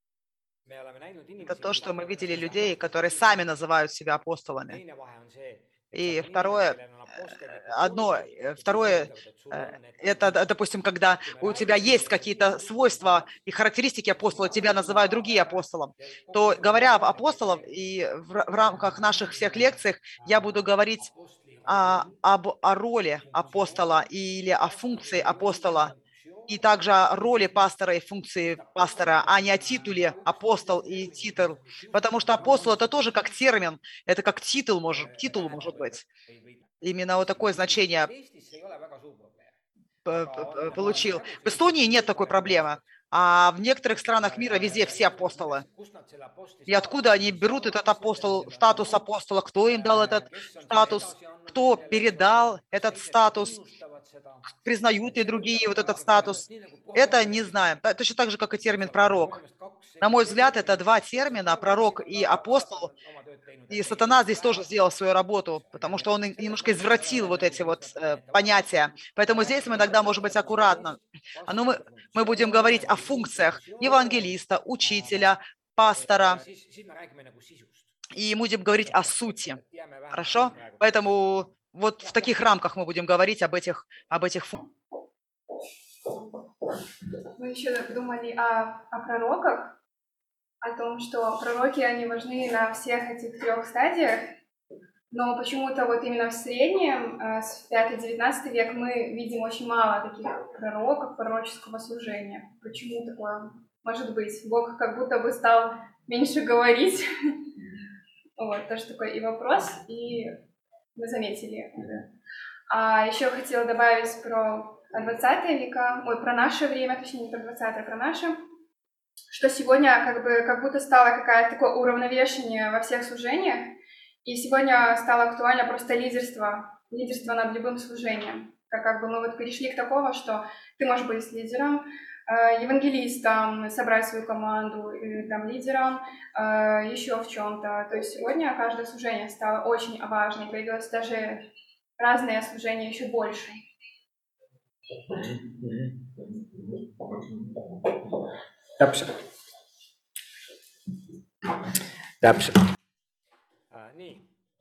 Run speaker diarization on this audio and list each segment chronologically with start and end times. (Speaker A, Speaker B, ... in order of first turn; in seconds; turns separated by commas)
Speaker A: 0.7-3.5, Speaker B: 1.4-4.8, Speaker A: 4.7-10.5, Speaker B: 5.9-6.8, Speaker B: 7.6-21.1, Speaker A: 11.2-13.4, Speaker A: 14.2-17.8, Speaker A: 18.5-22.2, Speaker B: 21.6-25.9, Speaker A: 23.2-27.7, Speaker B: 26.5-36.0, Speaker A: 28.5-33.3, Speaker A: 34.9-36.7, Speaker B: 36.8-38.1, Speaker A: 37.3-42.8, Speaker B: 40.0-45.6, Speaker A: 44.2-49.0, Speaker B: 46.7-53.6, Speaker A: 49.6-57.8, Speaker B: 54.6-59.4, Speaker A: 58.6-64.9, Speaker B: 60.0-62.9, Speaker B: 63.7-76.4, Speaker A: 65.5-77.9, Speaker B: 78.1-79.6, Speaker A: 78.7-81.3, Speaker B: 80.1-84.5, Speaker A: 82.0-82.3, Speaker C: 87.3-89.8, Speaker C: 90.6-94.3, Speaker C: 95.1-107.4, Speaker C: 108.4-110.4, Speaker C: 111.0-112.1, Speaker C: 112.7-118.4, Speaker C: 119.3-141.5, Speaker C: 142.0-143.6, Speaker A: 148.8-149.1, Speaker A: 152.2-152.6, Speaker A: 153.7-154.3